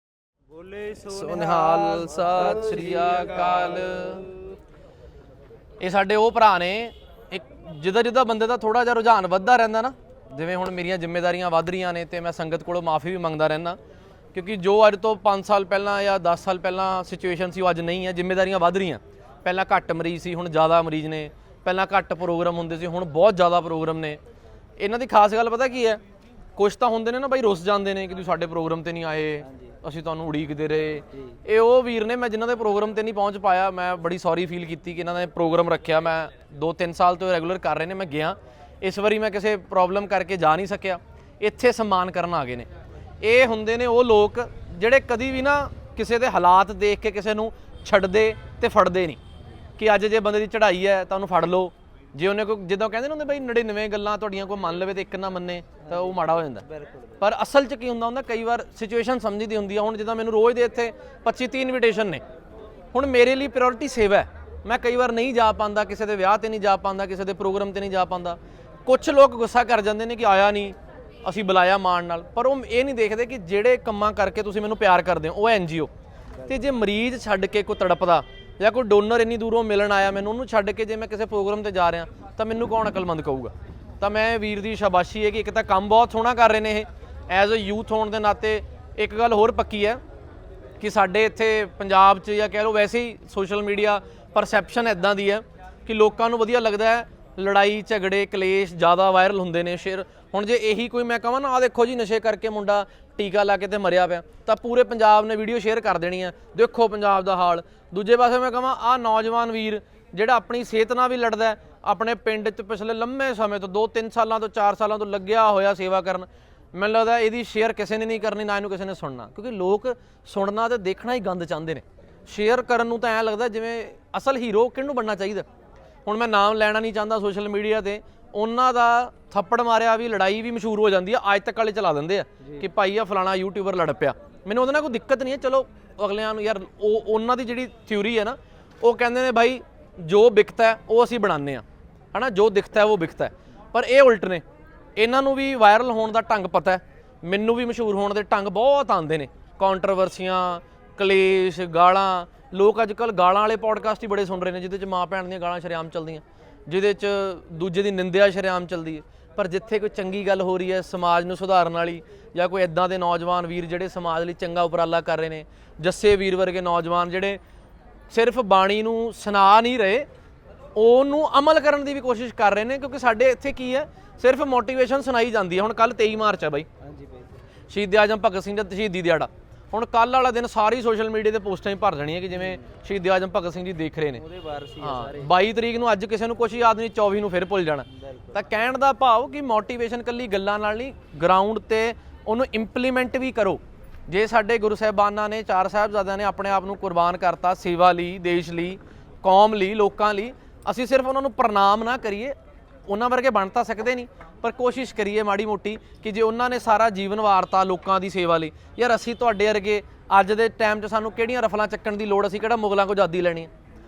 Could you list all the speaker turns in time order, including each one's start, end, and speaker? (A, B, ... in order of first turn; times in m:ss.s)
0:00.5-0:04.6 A
0:01.1-0:04.3 B
0:05.8-0:13.8 B
0:14.3-0:24.2 B
0:24.8-0:26.0 B
0:26.6-0:42.7 B
0:29.4-0:29.8 A
0:31.1-0:31.4 A
0:43.2-0:49.2 B
0:49.8-0:56.6 B
0:55.8-0:57.2 A
0:57.2-1:02.2 B
1:02.9-1:15.9 B
1:16.4-1:16.7 A
1:16.5-1:30.0 B
1:30.8-2:05.5 B
2:06.1-2:24.4 B
2:12.4-2:12.7 A
2:25.0-2:47.4 B
2:48.1-2:50.1 B
2:50.8-2:56.7 B
2:56.8-2:57.4 A
2:57.7-3:04.2 B
3:02.3-3:02.6 A
3:04.1-3:05.4 A
3:04.8-3:22.4 B
3:07.9-3:08.4 A
3:22.9-3:33.5 B